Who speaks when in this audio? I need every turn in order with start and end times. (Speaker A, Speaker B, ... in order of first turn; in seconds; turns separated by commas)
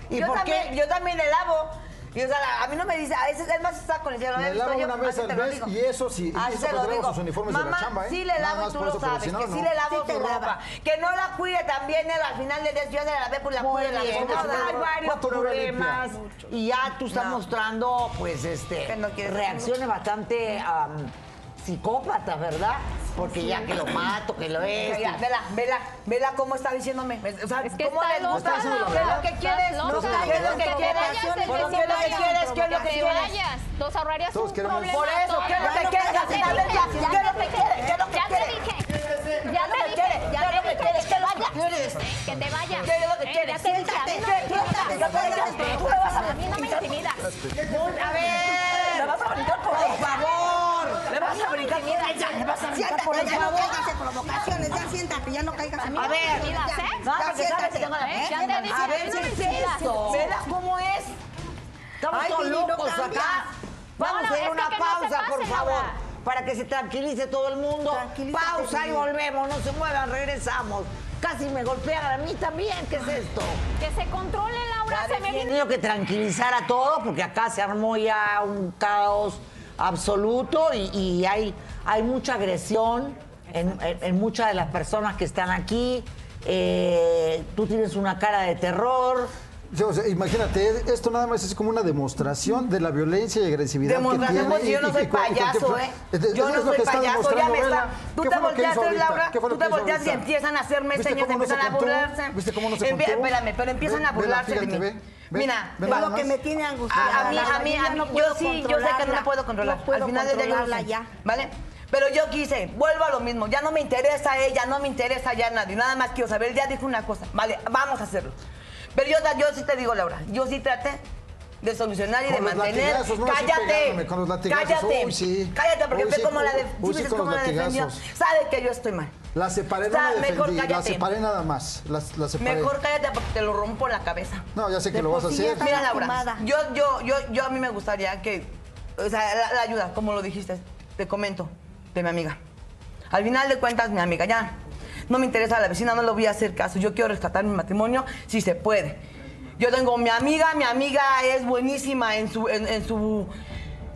Speaker A: 0.1-0.7, Speaker B: 0.1-5.7, Speaker C: 4.4-9.7, Speaker B: 6.3-14.8, Speaker D: 9.9-10.6, Speaker A: 13.6-25.2, Speaker C: 14.1-16.0, Speaker B: 17.1-17.4, Speaker B: 18.9-19.7, Speaker B: 24.7-33.3, Speaker E: 27.6-38.9, Speaker C: 28.3-29.3, Speaker D: 29.8-33.3, Speaker C: 29.9-30.8, Speaker C: 34.3-35.1, Speaker B: 34.8-38.6, Speaker D: 35.5-37.5, Speaker B: 39.4-42.0, Speaker E: 39.4-47.2, Speaker B: 42.8-46.9, Speaker D: 43.6-46.8, Speaker C: 47.3-47.6, Speaker A: 47.6-49.1, Speaker B: 48.2-50.2, Speaker A: 49.7-51.2, Speaker B: 51.1-53.9, Speaker E: 51.3-52.1, Speaker A: 52.6-53.7, Speaker D: 52.7-58.7, Speaker B: 56.0-56.3, Speaker A: 56.0-56.5, Speaker E: 56.0-57.1, Speaker B: 57.0-61.1, Speaker E: 58.0-60.2, Speaker A: 58.6-60.4, Speaker A: 62.0-73.6, Speaker D: 62.1-63.5, Speaker E: 64.0-66.0, Speaker D: 67.9-69.1, Speaker E: 73.8-75.5, Speaker B: 74.9-75.5, Speaker A: 75.4-89.3, Speaker C: 89.7-100.3, Speaker B: 93.8-106.0, Speaker C: 100.9-106.3, Speaker D: 105.8-111.1, Speaker B: 106.9-118.4, Speaker C: 106.9-107.6, Speaker B: 119.0-121.0, Speaker B: 121.6-129.1, Speaker C: 122.3-128.0, Speaker C: 129.3-132.7, Speaker B: 129.9-131.1, Speaker B: 132.4-134.4, Speaker C: 134.6-135.9, Speaker D: 134.9-136.4, Speaker B: 135.5-142.4, Speaker B: 143.1-144.5, Speaker B: 145.1-149.0, Speaker B: 149.6-153.3